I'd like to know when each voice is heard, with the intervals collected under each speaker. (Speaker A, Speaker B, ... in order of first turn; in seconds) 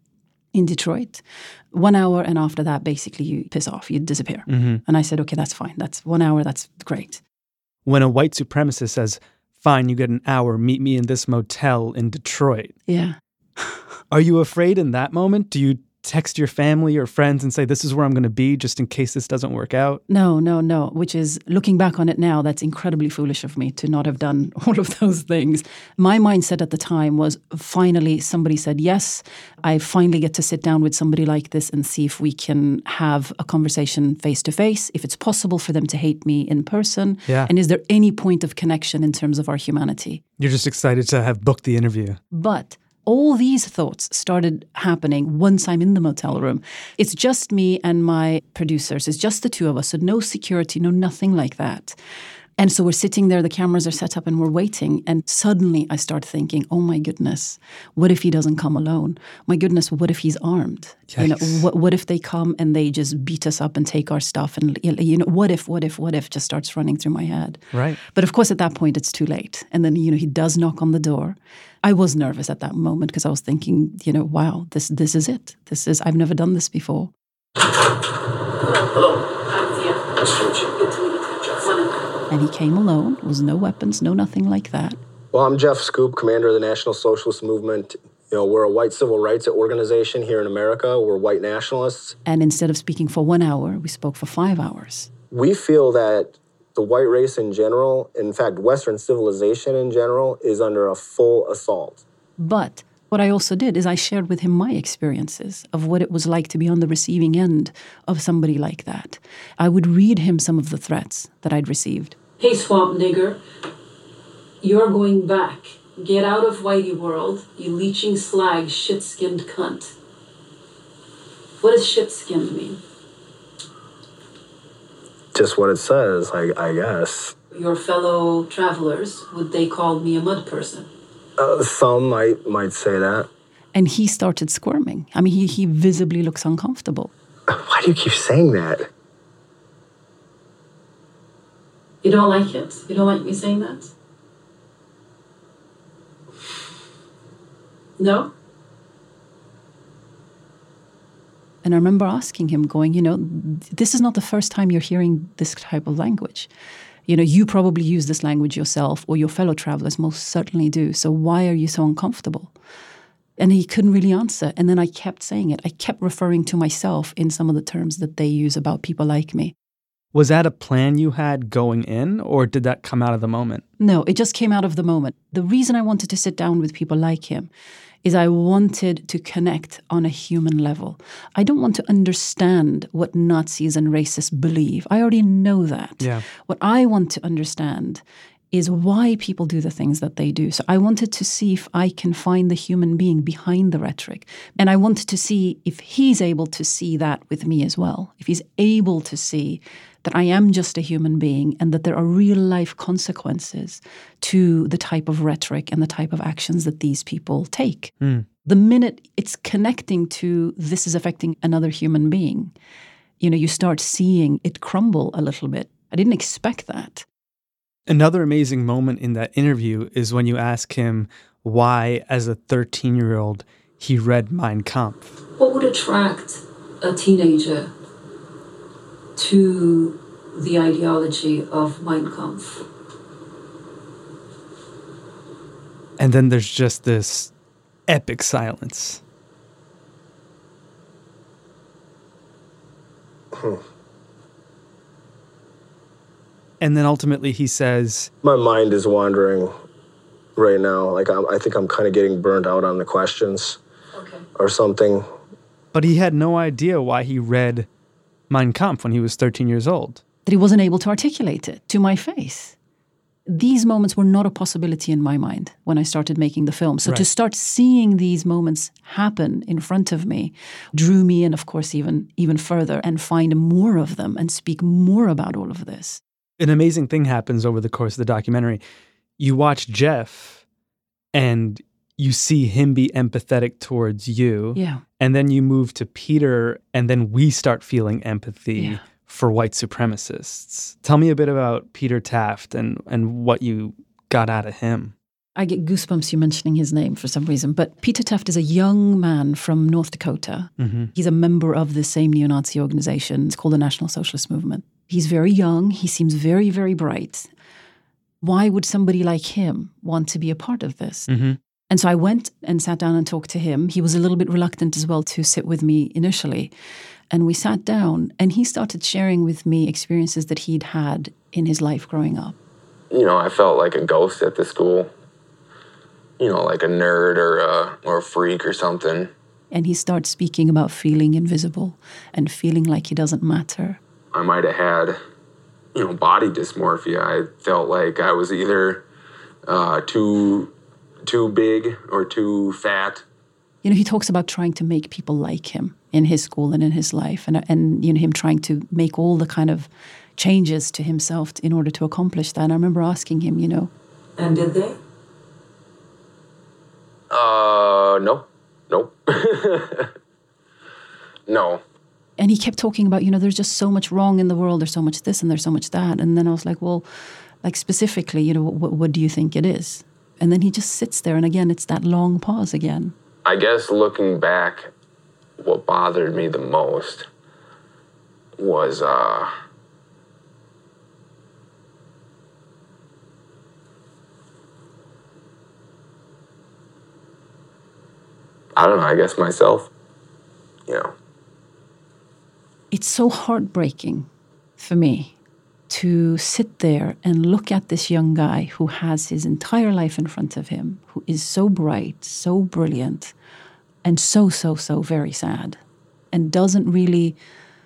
Speaker A: 0.5-7.2, 12.9-13.8, 20.1-40.2, 42.3-52.0, 52.6-77.1, 82.3-85.0, 92.2-95.1, 102.4-112.2, 133.7-137.1, 151.6-156.5, 157.1-162.5, 163.4-169.5, 173.8-177.5, 178.0-207.9, 208.4-212.5, 213.2-217.0, 260.2-262.5, 263.3-276.0, 284.5-284.8, 295.4-307.3, 308.2-311.1, 311.7-316.5, 317.1-322.4, 329.5-333.8, 343.6-353.7, 362.2-366.8, 367.4-372.9, 392.7-395.1, 395.7-403.1, 403.8-405.6, 406.1-407.2
Speaker B: 4.5-4.8, 7.8-12.7, 14.1-20.0, 40.4-42.2, 61.1-61.6, 67.7-68.0, 170.1-173.6, 217.9-225.1, 236.0-237.3, 237.9-239.0, 246.6-248.1, 255.7-257.7, 258.3-260.0, 276.4-278.6, 279.2-280.4, 281.1-294.9, 300.6-300.9, 311.1-311.4
Speaker C: 78.7-81.9, 112.4-113.4, 114.6-119.9, 121.6-122.8, 127.5-130.9, 142.0-143.9, 148.0-148.3, 225.4-227.7, 229.2-232.6, 253.9-254.2, 354.2-354.8
Speaker D: 85.3-92.2, 95.3-102.0, 125.3-127.3, 131.4-133.3, 137.5-138.9, 243.3-243.6, 248.2-249.5, 250.3-253.6, 254.4-255.0
Speaker E: 322.9-324.9, 326.2-329.1, 334.1-335.0, 335.7-338.8, 339.5-340.5, 341.1-343.0, 357.1-359.9, 361.3-361.6, 373.2-374.7, 375.4-377.1, 378.4-379.3, 388.6-389.7